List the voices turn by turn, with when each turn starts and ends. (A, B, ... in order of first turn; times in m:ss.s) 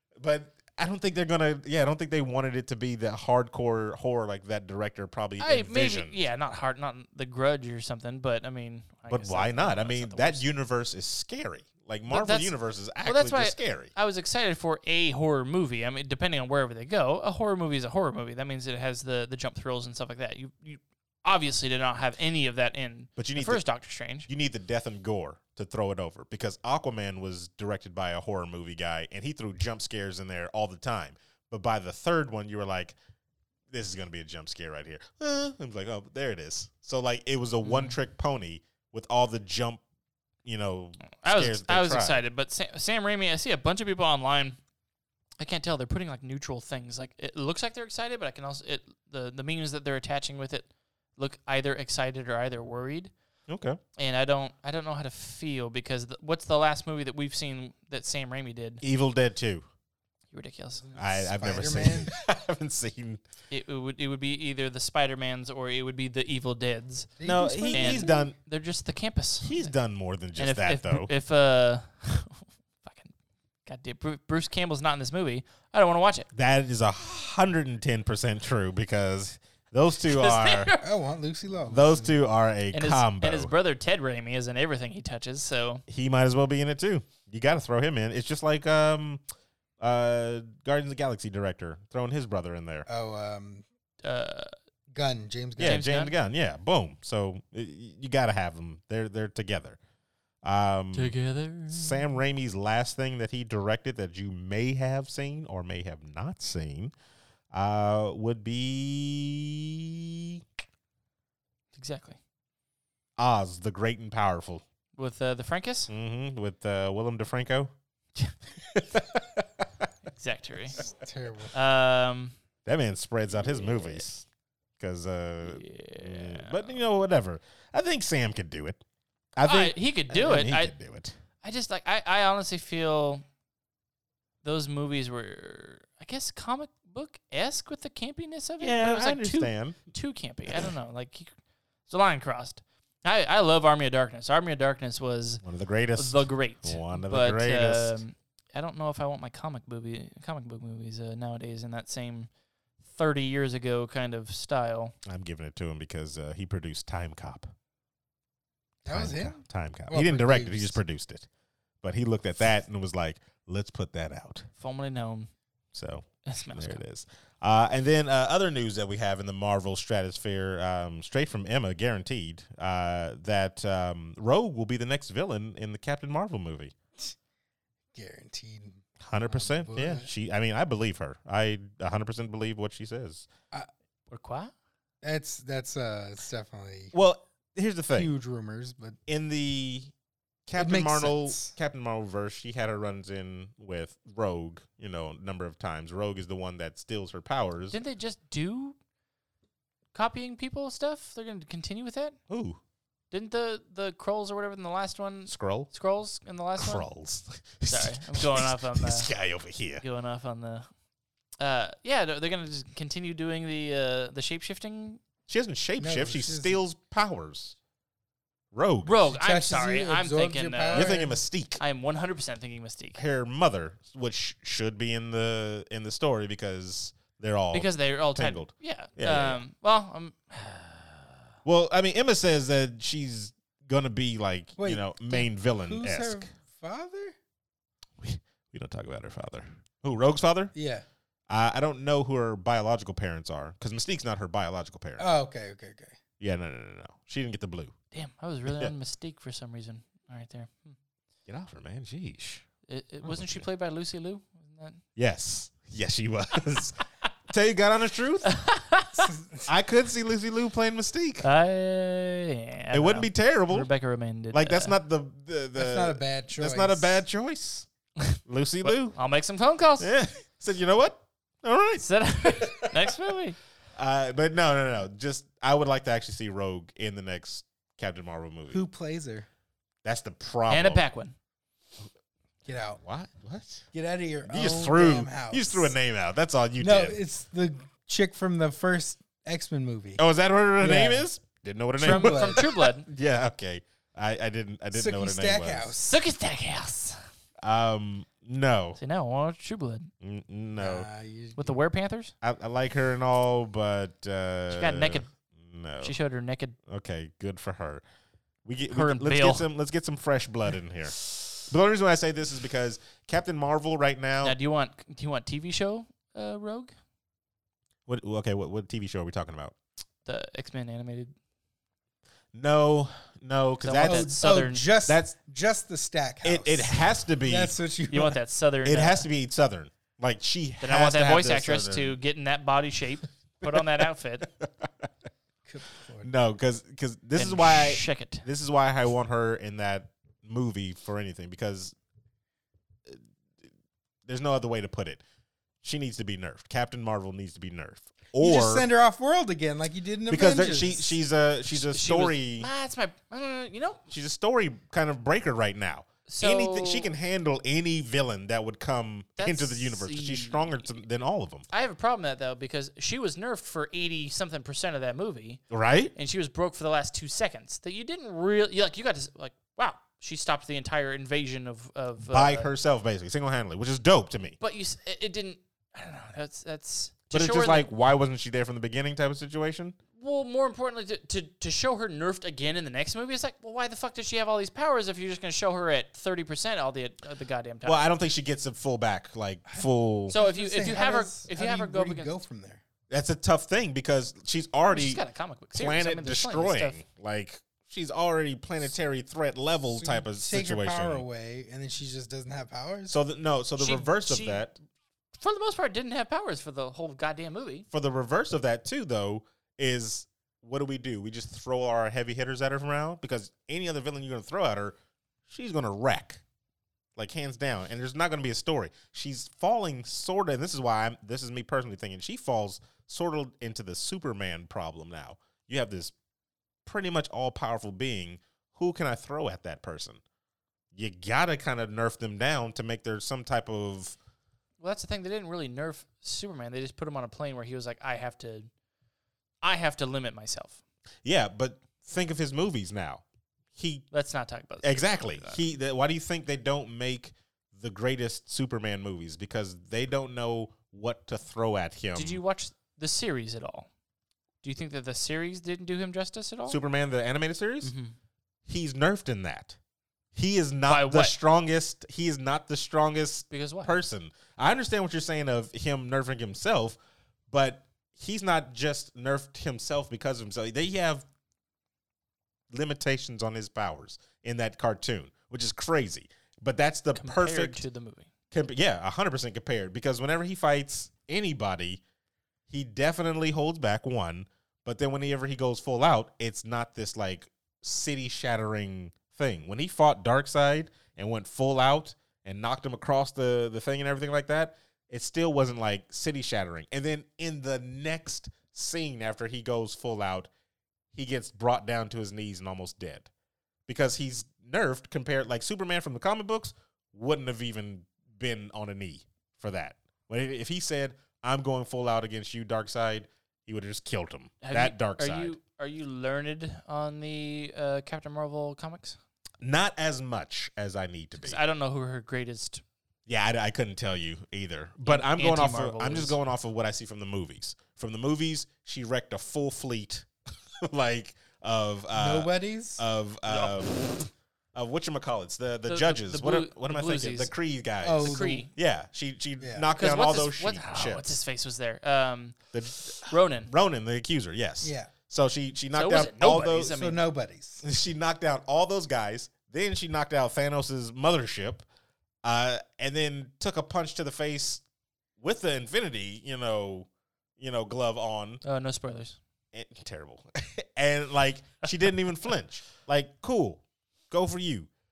0:00.2-0:06.2 A
0:05.4-0:10.4 B
0:09.1-0:13.9 A
0:12.1-0:24.3 B
0:23.2-0:23.6 A
0:24.3-0:33.0 A
0:33.7-0:39.8 A
0:37.6-0:38.0 B
0:40.4-0:42.2 A
0:41.1-0:44.6 B
0:45.4-0:53.1 B
0:53.5-0:53.8 A
0:54.0-0:58.8 B
0:58.8-0:59.6 A
1:00.3-1:00.8 B
1:00.8-1:02.1 C
1:01.0-1:03.2 A
1:03.5-1:07.2 B
1:07.2-1:08.2 C
1:07.2-1:08.3 A
1:07.7-1:09.7 B
1:09.4-1:11.1 A
1:10.4-1:13.1 B
1:13.6-1:16.3 B
1:16.3-1:20.7 A
1:20.0-1:20.9 B
1:20.8-1:22.2 C
1:21.7-1:23.5 A
1:22.7-1:25.8 B
1:25.9-1:29.2 A
1:29.8-1:32.8 A
1:32.9-1:33.6 C
1:34.0-1:34.5 B
1:34.9-1:35.8 C
1:35.6-1:39.8 A
1:35.6-1:36.1 B
1:40.4-1:41.1 A
1:40.9-1:42.1 B
1:41.7-1:46.9 A
1:47.5-1:50.4 A
1:51.7-1:52.2 B
1:53.2-1:54.6 A
1:55.0-1:55.9 B
1:55.9-1:57.7 A
1:58.7-1:59.4 A
2:00.1-2:00.8 B
2:00.8-2:01.5 C
2:01.5-2:02.3 B
2:02.6-2:04.2 A
2:03.3-2:04.0 B
2:04.8-2:08.8 A
2:05.4-2:06.7 B
2:09.4-2:11.1 A
2:09.4-2:10.7 B
2:11.4-2:13.2 B
2:14.4-2:21.3 B
2:18.6-2:19.8 A
2:21.9-2:25.4 B
2:25.4-2:28.0 A
2:26.0-2:32.3 B
2:32.8-2:34.9 B
2:35.0-2:37.5 A
2:38.8-2:40.8 C
2:38.9-2:41.3 A
2:41.8-2:44.5 A
2:44.6-2:45.3 B
2:45.7-2:56.7 A
2:46.3-2:46.8 B
2:57.9-3:00.1 C
2:59.0-3:03.3 A
3:04.1-3:04.5 B
3:05.0-3:06.9 C
3:06.9-3:08.1 A
3:07.9-3:09.0 C
3:09.1-3:09.9 A
3:10.5-3:17.8 A
3:10.6-3:11.5 C
3:17.7-3:18.8 B
3:19.9-3:22.2 B
3:22.3-3:22.6 A
3:23.1-3:26.8 B
3:25.3-3:25.7 A
3:26.6-3:29.8 A
3:27.7-3:29.1 B
3:29.8-3:30.7 B
3:31.4-3:35.0 B
3:35.3-3:37.6 A
3:35.8-3:36.6 C
3:38.5-3:39.0 A
3:38.8-3:41.0 B
3:39.1-3:41.2 C
3:40.7-3:41.6 A
3:41.6-3:43.0 B
3:43.0-3:49.4 A
3:47.5-3:51.1 B
3:51.4-3:56.3 A
3:54.6-3:57.1 C
3:58.0-4:00.5 A
4:00.5-4:00.8 C
4:01.3-4:05.1 A
4:05.0-4:06.0 C
4:06.2-4:07.7 A
4:07.9-4:10.8 B
4:08.4-4:08.7 A
4:11.3-4:12.4 A
4:12.7-4:14.8 B
4:13.0-4:13.4 A
4:15.0-4:18.3 A
4:18.2-4:19.1 B
4:19.0-4:19.5 C
4:19.5-4:21.3 A
4:21.2-4:24.7 B
4:22.7-4:23.7 A
4:24.3-4:27.7 A
4:25.5-4:27.0 C
4:28.0-4:29.9 B
4:28.2-4:29.0 A
4:29.8-4:33.1 A
4:31.8-4:33.4 B
4:33.8-4:38.6 A
4:38.5-4:39.3 C
4:39.8-4:40.8 A
4:40.5-4:41.1 B
4:42.4-4:42.8 C
4:42.8-4:43.7 A
4:43.7-4:45.7 C
4:44.3-4:47.0 A
4:46.6-4:50.0 C
4:50.0-4:55.7 A
4:50.6-4:51.0 C
4:51.8-4:52.4 C
4:51.8-4:52.8 B
4:54.7-4:56.0 C
4:55.8-4:57.1 B
4:57.4-4:58.8 A
4:58.8-4:59.9 B
5:00.0-5:00.9 A
5:00.6-5:01.6 C
5:01.4-5:02.1 B
5:02.2-5:05.9 A
5:04.5-5:05.1 B
5:05.8-5:06.6 B
5:06.7-5:07.8 A
5:08.4-5:14.4 A
5:08.7-5:09.4 B
5:14.2-5:16.7 B
5:17.9-5:19.5 A
5:20.0-5:21.1 B
5:22.3-5:24.1 A
5:23.6-5:24.6 B
5:23.8-5:28.2 C
5:26.2-5:27.5 A
5:27.9-5:29.1 B
5:28.6-5:32.0 A
5:30.6-5:34.3 B
5:34.2-5:34.9 A
5:35.4-5:36.1 C
5:36.0-5:41.7 A
5:37.2-5:38.2 B
5:44.1-5:45.0 A
5:45.6-5:48.7 A
5:48.2-5:51.0 C
5:50.1-5:52.5 A
5:51.5-5:53.8 B
5:53.9-6:01.5 A
5:56.0-5:56.9 B
5:59.2-6:00.8 B
6:01.5-6:05.4 B
6:05.5-6:05.9 A
6:05.9-6:12.5 B
6:12.1-6:14.4 A
6:14.4-6:17.7 B
6:17.1-6:19.8 A
6:20.0-6:27.8 B
6:27.6-6:30.2 A
6:30.1-6:32.1 B
6:30.1-6:32.6 C
6:32.9-6:41.0 A
6:34.7-6:36.8 B
6:39.7-6:43.0 C
6:42.9-6:44.6 A
6:43.6-6:44.4 B
6:45.2-6:47.6 B
6:47.7-6:54.8 A
6:55.3-6:56.2 A
6:57.0-7:05.9 A
7:06.6-7:10.0 A
7:10.7-7:14.0 A
7:14.6-7:18.5 B
7:19.4-7:20.6 B
7:21.0-7:23.0 A
7:23.5-7:23.9 A
7:23.9-7:25.4 B
7:24.6-7:32.2 A
7:31.9-7:33.7 B
7:34.4-7:36.6 B
7:36.5-7:37.7 A
7:37.6-7:37.9 B
7:38.4-7:39.6 A
7:40.1-7:46.8 A
7:40.7-7:41.2 B
7:43.3-7:43.8 B
7:47.3-7:51.0 A
7:52.5-7:57.6 A
7:56.9-7:58.1 B
7:58.3-8:01.8 A
8:02.5-8:20.3 A
8:20.9-8:23.1 A
8:23.7-8:35.3 A
8:34.4-8:39.0 B
8:39.4-8:41.4 A
8:41.2-8:42.6 B
8:43.1-8:50.1 A
8:44.8-8:46.2 B
8:50.6-8:54.0 A
8:51.9-8:52.8 C
8:53.2-8:54.0 B
8:54.5-9:01.2 A
8:55.7-8:57.3 B
8:57.8-8:58.4 C
8:58.0-8:58.5 B
8:59.4-8:59.7 C
8:59.7-9:02.4 B
9:02.5-9:06.7 A
9:03.1-9:03.5 B
9:04.6-9:04.9 C
9:05.7-9:07.0 B
9:06.6-9:07.6 C
9:07.6-9:11.6 A
9:12.2-9:14.6 A
9:15.2-9:16.9 A
9:17.4-9:18.4 A
9:18.4-9:19.2 B
9:19.5-9:24.7 A